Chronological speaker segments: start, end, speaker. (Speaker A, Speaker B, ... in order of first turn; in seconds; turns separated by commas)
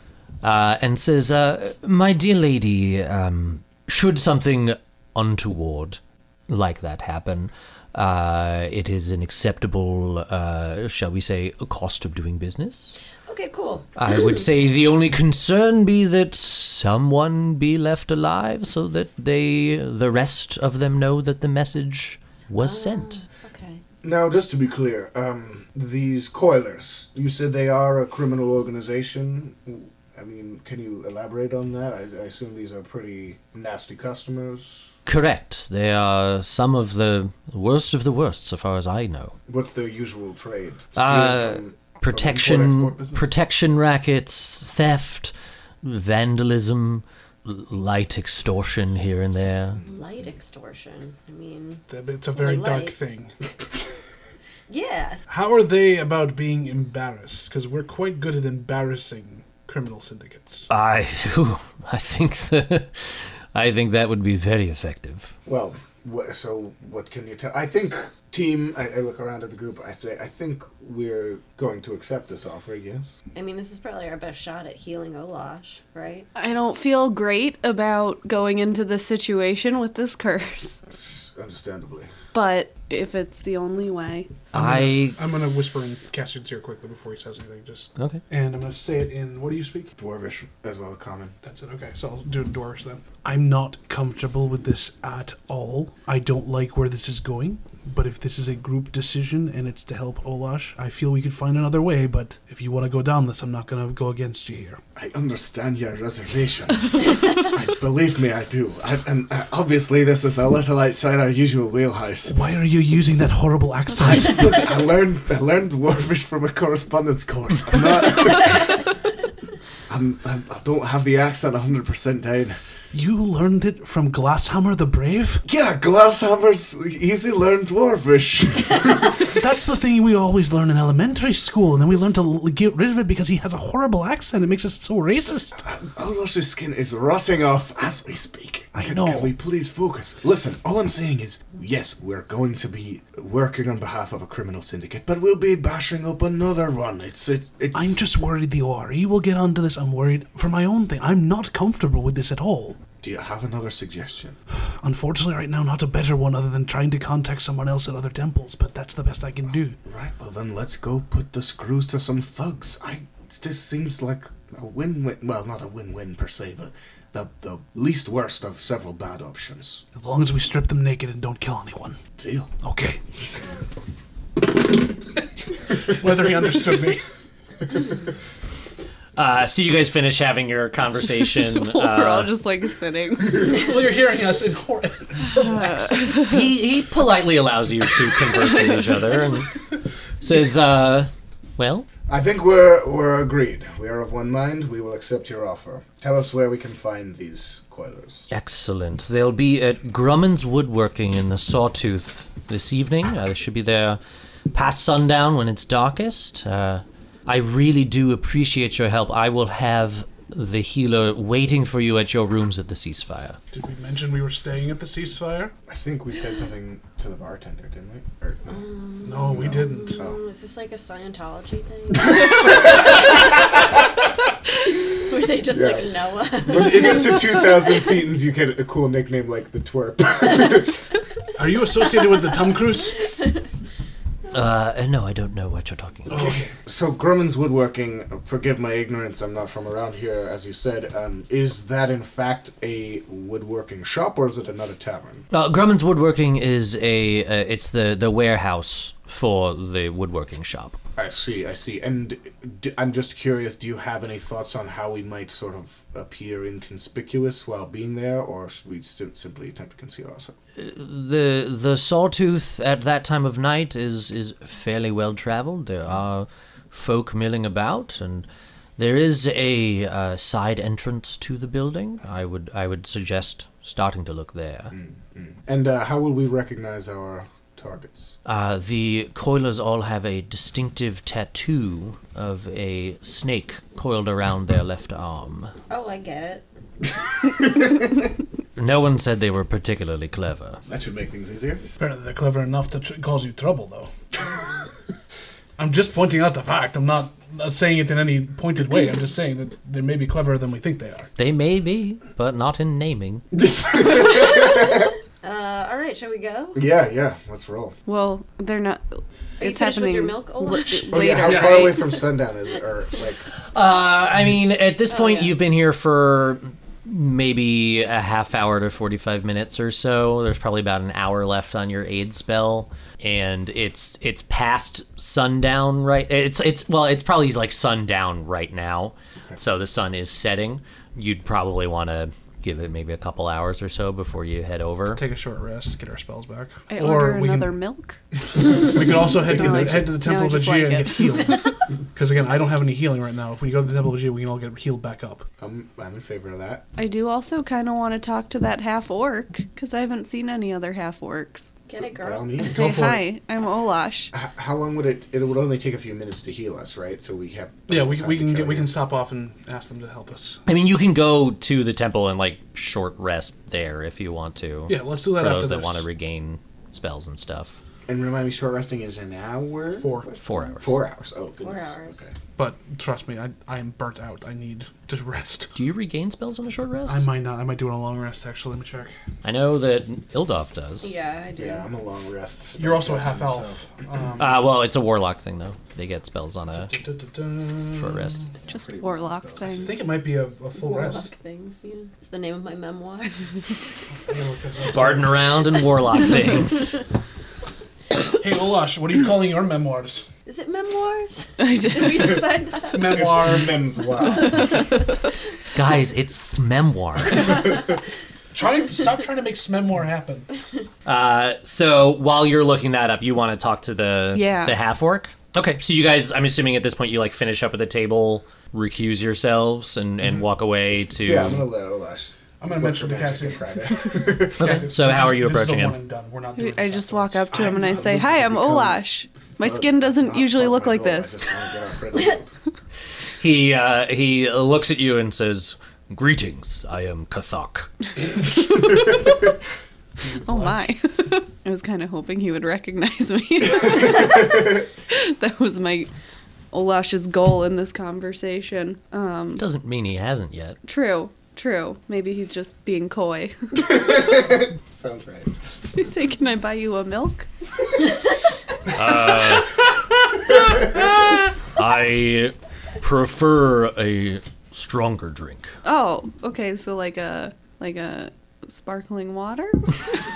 Speaker A: 0.4-12.9, Speaker B: 13.3-14.4, Speaker A: 13.9-23.2, Speaker B: 22.6-23.8, Speaker C: 24.0-34.9, Speaker A: 35.0-39.3, Speaker C: 39.5-43.3, Speaker A: 41.0-49.8, Speaker B: 49.9-52.9, Speaker D: 51.9-53.3, Speaker B: 54.7-55.2, Speaker D: 55.3-60.7, Speaker A: 60.7-65.3, Speaker C: 65.5-73.1, Speaker B: 73.3-76.3, Speaker E: 76.3-80.8, Speaker C: 80.9-82.1, Speaker E: 82.3-84.4, Speaker A: 84.5-85.2, Speaker D: 84.5-89.9, Speaker A: 88.0-88.2, Speaker C: 90.0-91.3, Speaker D: 91.4-104.8, Speaker C: 105.0-112.3, Speaker D: 112.2-114.6, Speaker C: 114.0-118.8, Speaker C: 119.9-122.6, Speaker D: 122.9-125.4, Speaker C: 125.5-129.3, Speaker D: 129.3-135.7, Speaker C: 135.5-148.0, Speaker D: 138.7-139.3, Speaker D: 147.7-152.8, Speaker C: 153.0-154.4, Speaker D: 154.8-159.8, Speaker C: 159.8-169.8, Speaker D: 169.9-172.0, Speaker C: 172.2-172.5, Speaker D: 172.6-173.0, Speaker D: 175.8-177.0, Speaker A: 179.2-182.3, Speaker E: 181.4-183.5, Speaker D: 183.3-185.9, Speaker E: 185.4-186.4, Speaker A: 186.1-189.5, Speaker A: 190.2-191.9, Speaker C: 192.1-198.3, Speaker A: 198.3-204.0, Speaker A: 204.5-213.4, Speaker D: 213.5-215.5, Speaker C: 215.7-218.6, Speaker B: 218.5-223.6, Speaker D: 219.0-220.1, Speaker C: 219.2-220.2, Speaker B: 224.9-227.2, Speaker C: 225.5-225.9, Speaker C: 226.4-230.8, Speaker D: 226.5-227.5, Speaker D: 231.3-232.9, Speaker B: 233.0-233.4, Speaker A: 234.3-236.3, Speaker D: 236.1-236.5, Speaker C: 236.1-245.2, Speaker A: 245.3-250.8, Speaker C: 250.9-260.3, Speaker A: 260.6-268.2, Speaker A: 268.8-274.7, Speaker C: 274.7-278.1, Speaker A: 278.2-285.5, Speaker B: 285.7-286.4, Speaker A: 288.6-290.6, Speaker C: 290.7-291.6, Speaker D: 291.8-293.9, Speaker D: 295.6-301.1, Speaker A: 301.2-303.2, Speaker C: 303.3-304.9, Speaker B: 305.2-306.6, Speaker C: 306.5-307.7, Speaker E: 307.9-311.5, Speaker B: 309.4-311.9, Speaker C: 310.9-313.2, Speaker D: 311.2-311.7, Speaker A: 313.5-335.0, Speaker B: 314.9-315.4, Speaker D: 334.9-337.6, Speaker E: 336.7-341.3, Speaker D: 338.4-345.2, Speaker C: 339.0-339.9, Speaker C: 345.4-346.6, Speaker E: 346.8-351.5, Speaker B: 351.7-352.4, Speaker C: 351.8-352.9, Speaker E: 352.4-354.1, Speaker D: 352.5-353.0, Speaker C: 354.1-358.7, Speaker D: 357.7-360.4, Speaker A: 360.4-367.6, Speaker D: 364.7-365.8, Speaker C: 367.9-372.1, Speaker D: 369.8-370.2, Speaker A: 370.2-370.8, Speaker B: 371.4-372.0, Speaker D: 372.4-375.5, Speaker A: 375.5-377.0, Speaker D: 376.9-378.9, Speaker A: 379.2-380.9, Speaker B: 380.8-381.7, Speaker C: 381.4-383.7, Speaker D: 382.6-384.4, Speaker A: 384.2-386.7, Speaker D: 386.5-388.3, Speaker A: 387.7-388.2, Speaker C: 388.4-389.8, Speaker E: 388.5-389.9, Speaker D: 389.4-391.1, Speaker B: 390.5-393.1, Speaker D: 394.0-395.3, Speaker A: 394.7-396.8, Speaker D: 398.2-400.1, Speaker B: 400.2-403.3, Speaker E: 401.4-402.3, Speaker D: 402.6-403.7, Speaker C: 402.8-404.5, Speaker A: 405.5-407.4, Speaker D: 408.3-410.3, Speaker A: 410.9-421.4, Speaker E: 414.1-414.5, Speaker C: 421.0-424.7, Speaker D: 422.4-427.6, Speaker A: 424.4-425.8, Speaker E: 426.4-431.2, Speaker C: 427.3-432.3, Speaker A: 433.2-437.7, Speaker D: 440.0-440.6, Speaker E: 440.2-445.9, Speaker E: 446.5-449.4, Speaker A: 449.4-450.6, Speaker E: 450.6-453.7, Speaker C: 453.6-455.3, Speaker E: 455.7-457.3, Speaker A: 458.7-459.5, Speaker A: 461.5-465.5, Speaker E: 465.6-469.7